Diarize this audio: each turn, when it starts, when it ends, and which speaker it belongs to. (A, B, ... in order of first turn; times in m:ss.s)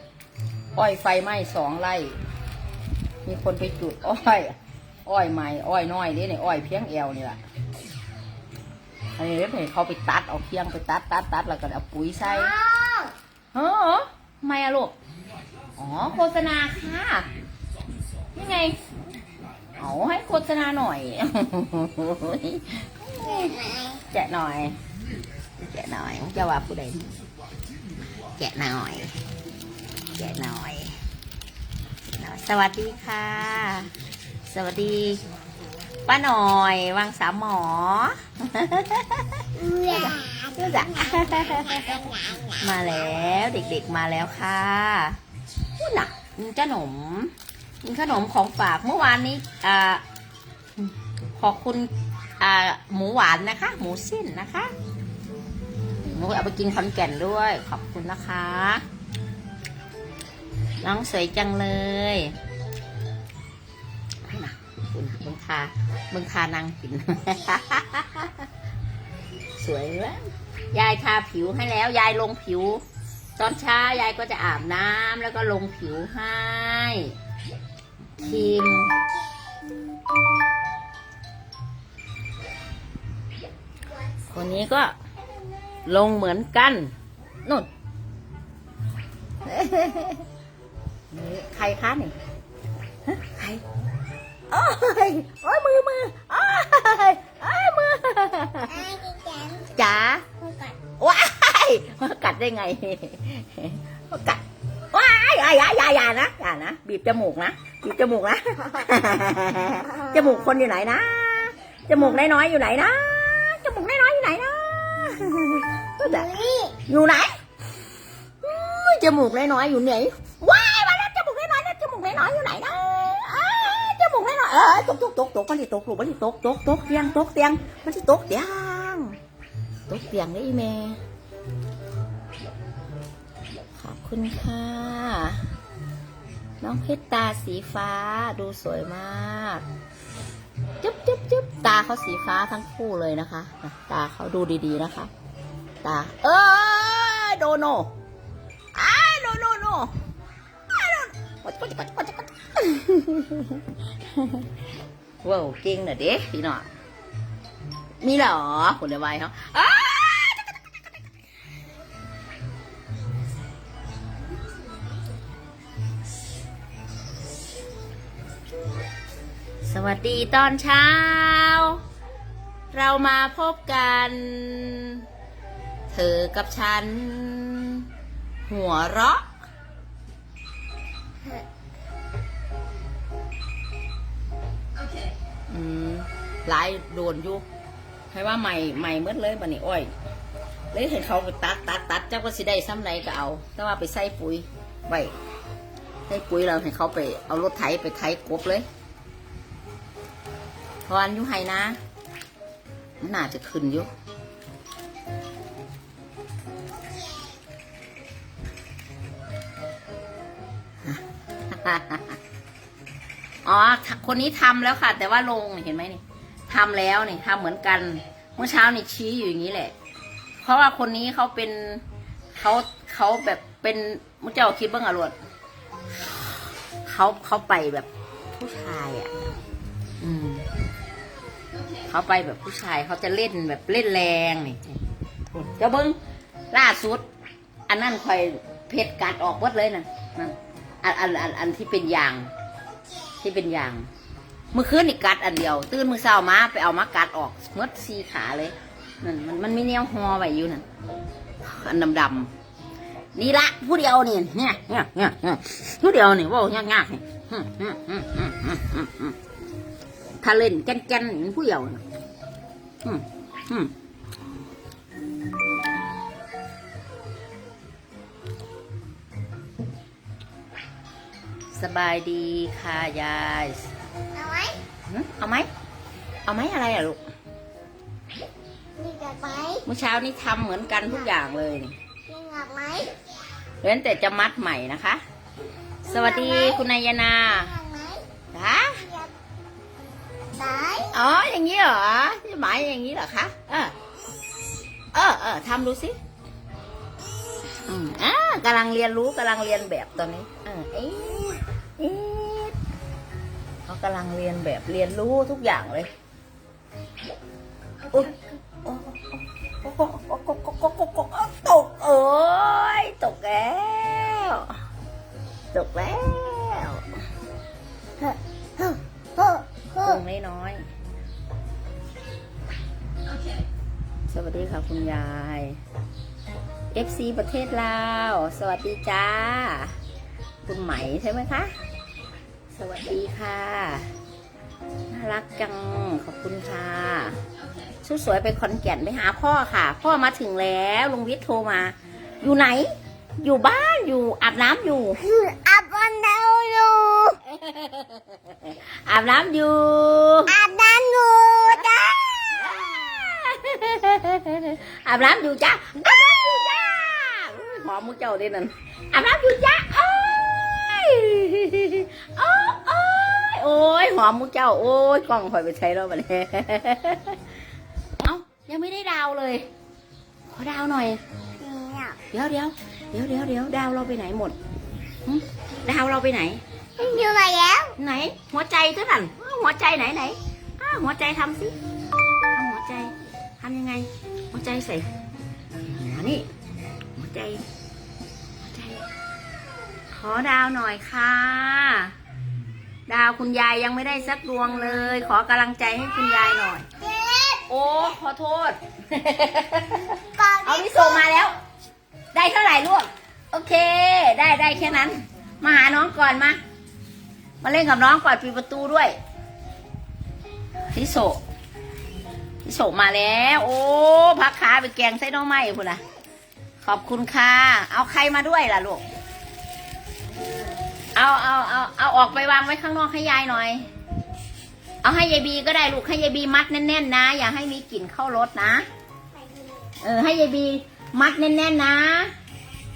0:00.7-0:02.2 A
0:03.2-0:04.5 A
0:05.0-0:07.4 A
0:09.2-0:12.5 A
0:12.2-0:13.1 B
0:13.5-0:14.9 A
0:15.8-0:17.3 A
0:18.3-0:18.8 A
0:19.8-0:23.5 A
0:23.2-0:24.0 B
0:24.1-0:24.8 A
0:25.6-0:27.1 A
0:28.4-0:29.1 A
0:30.2-0:31.0 A
0:32.2-0:33.9 A
0:34.5-0:35.2 A
0:36.1-0:42.0 A
0:39.6-0:42.2 B
0:42.6-0:45.2 A
0:45.8-0:47.3 A
0:47.8-0:50.0 A
0:50.8-0:54.7 A
0:56.1-0:58.8 A
1:00.8-1:02.4 A
1:04.2-1:08.5 A
1:09.6-1:12.8 A
1:13.4-1:17.1 A
1:18.2-1:18.9 A
1:24.3-1:24.9 A
1:25.8-1:26.9 A
1:29.4-1:30.2 A
1:31.1-1:32.1 A
1:33.1-1:33.6 A
1:34.5-1:38.8 A
1:38.7-1:39.7 B
1:39.7-1:40.2 A
1:40.4-1:40.7 B
1:41.0-1:56.3 A
1:56.0-1:56.8 B
1:56.8-1:57.3 A
1:58.4-2:09.2 A
2:09.9-2:11.0 A
2:13.8-2:15.4 A
2:16.6-2:19.6 A
2:20.8-2:25.1 A
2:25.8-2:27.9 A
2:28.7-2:29.9 A
2:30.7-2:34.5 A
2:35.2-2:36.7 A
2:38.0-2:40.5 A
2:49.6-2:51.8 A
2:52.7-2:55.0 A
2:55.9-2:57.9 A
2:58.5-2:59.2 A
3:05.5-3:07.4 A
3:08.1-3:09.9 A
3:10.7-3:15.1 A
3:16.1-3:18.6 A
3:20.8-3:21.8 A
3:23.0-3:23.9 A
3:30.8-3:32.2 A
3:33.4-3:39.7 A
3:40.4-3:41.8 A
3:42.4-3:45.2 A
3:46.8-3:49.2 A
3:50.0-3:50.4 A
3:51.8-3:54.8 A
3:55.3-3:56.0 A
3:56.5-3:57.0 A
3:57.7-4:02.3 A
4:03.2-4:03.9 A
4:04.5-4:10.6 A
4:11.4-4:12.3 A
4:13.1-4:19.2 A
4:20.2-4:21.8 A
4:22.8-4:23.7 A
4:31.5-4:33.7 A
4:34.1-4:34.6 B
4:34.9-4:35.5 A
4:36.3-4:37.0 A
4:38.8-4:39.6 B
4:39.6-4:41.8 A
4:42.1-4:43.0 B
4:43.6-4:45.0 A
4:45.8-4:47.5 A
4:45.8-4:46.6 B
4:47.4-4:48.0 B
4:48.3-4:48.8 A
4:48.8-4:49.1 B
4:50.3-4:51.0 B
4:50.9-4:53.7 A
4:54.9-4:56.0 A
4:57.6-5:02.6 A
5:03.6-5:05.9 A
5:07.9-5:14.6 A
5:15.5-5:16.8 A
5:18.0-5:20.6 A
5:24.1-5:25.6 A
5:26.7-5:29.7 A
5:30.4-5:31.5 A
5:32.5-5:33.9 A
5:34.9-5:37.2 A
5:37.8-5:45.0 A
5:45.0-5:47.2 B
5:47.2-5:50.3 A
5:50.3-5:52.6 B
5:51.6-6:07.2 A
6:08.0-6:09.4 A
6:10.3-6:11.0 A
6:11.4-6:12.0 B
6:12.1-6:14.4 A
6:15.0-6:16.4 A
6:16.8-6:17.7 B
6:17.8-6:21.6 A
6:22.3-6:24.9 A
6:25.6-6:26.3 A
6:27.0-6:27.4 A
6:28.4-6:28.8 A
6:29.9-6:31.9 A
6:32.9-6:36.6 A
6:36.8-6:37.4 B
6:37.5-6:41.3 A
6:40.2-6:41.1 B
6:42.1-6:46.4 A
6:47.4-6:49.0 A
6:50.7-6:51.2 A
6:52.4-6:55.8 A
6:56.6-6:58.8 A
7:00.9-7:03.6 A
7:04.8-7:08.6 A
7:09.2-7:09.7 B
7:09.8-7:12.1 A